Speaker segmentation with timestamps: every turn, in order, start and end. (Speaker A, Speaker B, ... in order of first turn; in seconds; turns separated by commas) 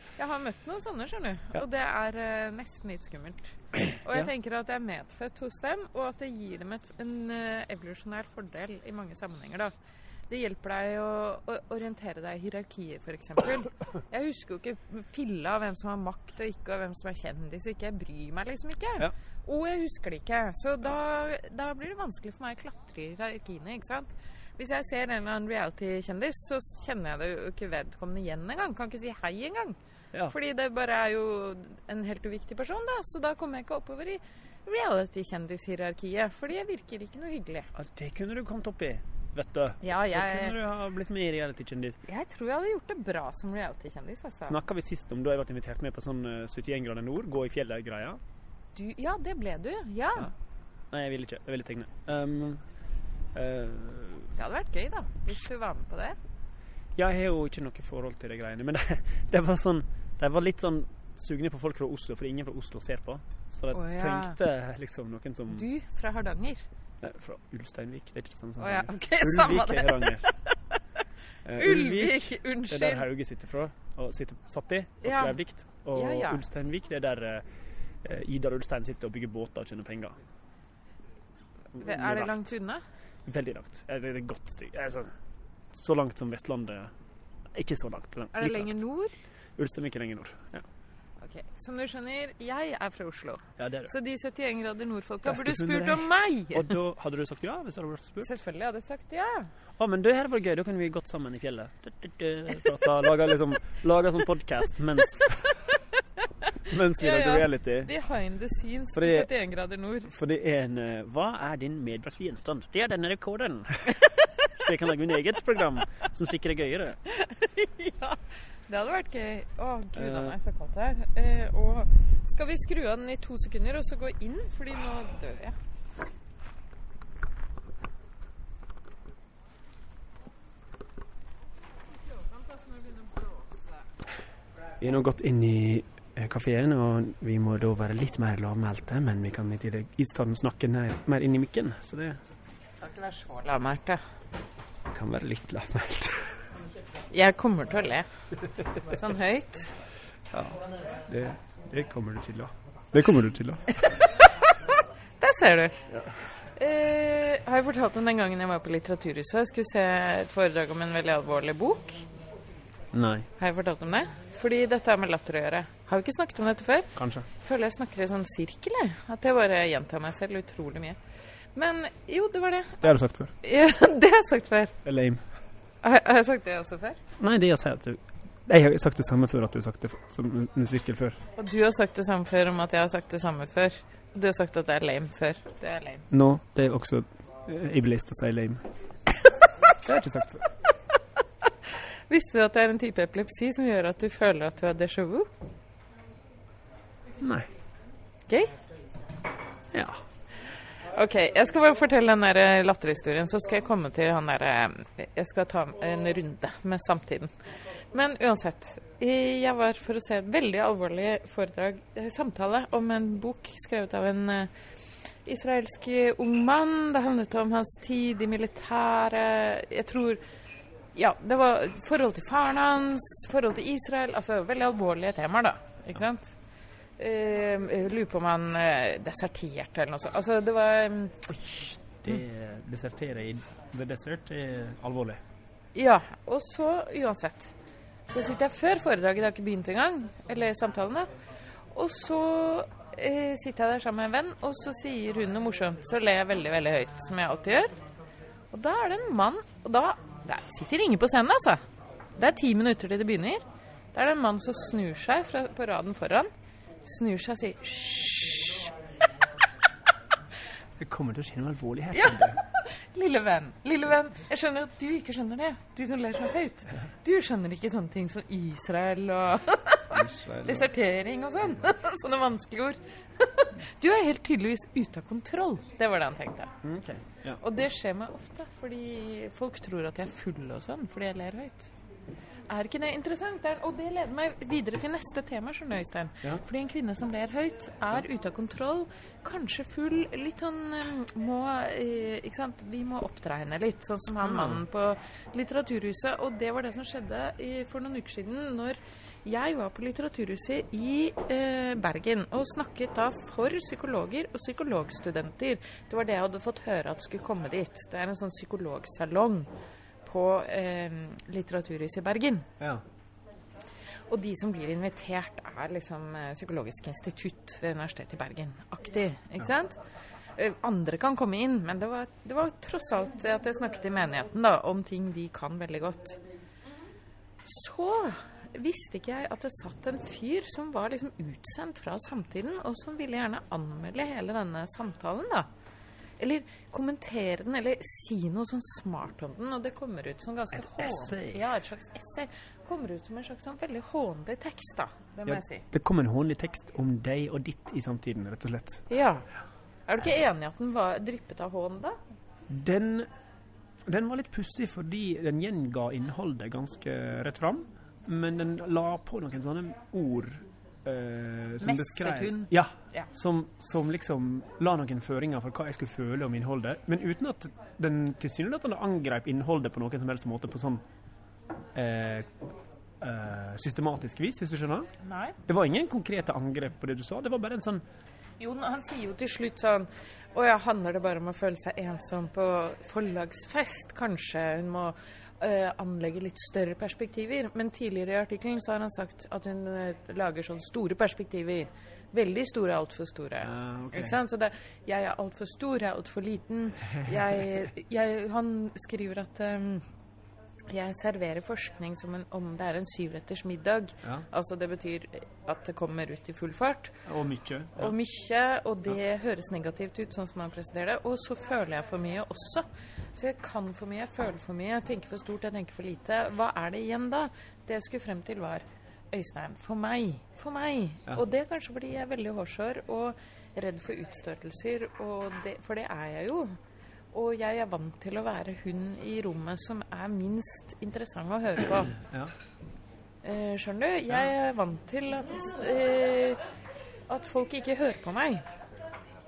Speaker A: 0.2-9.7, Speaker A: 10.3-37.7, Speaker B: 37.8-42.0, Speaker A: 39.8-40.6, Speaker A: 42.1-44.6, Speaker B: 44.4-48.2, Speaker A: 48.8-50.3, Speaker B: 50.9-52.6, Speaker B: 53.4-54.3, Speaker A: 54.4-56.2, Speaker B: 57.0-65.7, Speaker A: 63.7-64.4, Speaker A: 65.5-66.7, Speaker B: 67.0-70.3, Speaker A: 68.6-70.5, Speaker B: 71.5-77.4, Speaker A: 71.5-73.1, Speaker A: 75.0-75.4, Speaker A: 75.9-76.4, Speaker B: 78.0-80.2, Speaker B: 81.8-82.5, Speaker A: 81.8-82.8, Speaker B: 83.3-85.1, Speaker B: 85.7-86.9, Speaker B: 87.5-88.8, Speaker A: 88.3-89.2, Speaker B: 89.6-90.7, Speaker A: 91.2-96.8, Speaker B: 93.6-93.9, Speaker B: 95.2-98.3, Speaker A: 98.2-99.5, Speaker B: 99.8-105.5, Speaker A: 106.5-110.1, Speaker B: 106.7-107.9, Speaker B: 108.9-109.3, Speaker B: 110.1-114.0, Speaker B: 114.6-117.0, Speaker A: 117.1-125.6, Speaker B: 120.0-120.3, Speaker A: 132.5-133.6, Speaker B: 134.8-142.2, Speaker A: 142.8-144.0, Speaker B: 144.9-146.3, Speaker A: 147.1-148.1, Speaker A: 148.8-149.8, Speaker B: 150.3-153.8, Speaker A: 153.8-155.8, Speaker A: 156.4-162.0, Speaker B: 162.9-163.3, Speaker A: 163.4-174.8, Speaker B: 166.9-167.3, Speaker B: 172.8-173.3, Speaker B: 174.8-175.2, Speaker A: 175.8-177.0, Speaker B: 177.2-181.2, Speaker A: 181.4-186.1, Speaker B: 186.1-188.6, Speaker B: 189.8-190.4, Speaker A: 192.1-195.3, Speaker B: 197.2-197.5, Speaker A: 198.3-198.5, Speaker B: 199.7-200.0, Speaker A: 200.9-207.3, Speaker A: 207.9-214.5, Speaker A: 215.2-220.2, Speaker A: 220.9-226.3, Speaker A: 227.0-231.3, Speaker B: 231.3-235.2, Speaker A: 235.8-237.5, Speaker A: 238.1-241.1, Speaker A: 241.7-247.7, Speaker A: 248.5-251.6, Speaker A: 252.2-253.4, Speaker A: 253.9-256.3, Speaker A: 256.8-258.7, Speaker B: 260.8-262.4, Speaker A: 261.9-276.5, Speaker B: 269.9-270.7, Speaker B: 276.6-277.4, Speaker A: 277.4-281.7, Speaker A: 282.5-309.5, Speaker B: 294.2-294.6, Speaker A: 310.1-312.5, Speaker A: 314.1-319.8, Speaker A: 320.4-326.2, Speaker A: 327.4-335.5, Speaker A: 336.2-345.7, Speaker B: 340.6-341.4, Speaker B: 345.3-348.8, Speaker A: 348.9-349.3, Speaker A: 349.9-352.0, Speaker B: 352.5-353.1, Speaker B: 353.9-370.8, Speaker A: 361.6-363.1, Speaker B: 371.8-372.4, Speaker B: 373.0-374.9, Speaker A: 375.0-375.4, Speaker B: 375.5-377.8, Speaker A: 378.4-399.8, Speaker B: 393.4-394.2, Speaker A: 400.7-407.1, Speaker B: 407.1-407.9, Speaker A: 407.8-426.6, Speaker A: 427.1-432.0, Speaker B: 432.0-432.3, Speaker A: 433.2-436.4, Speaker A: 437.1-438.4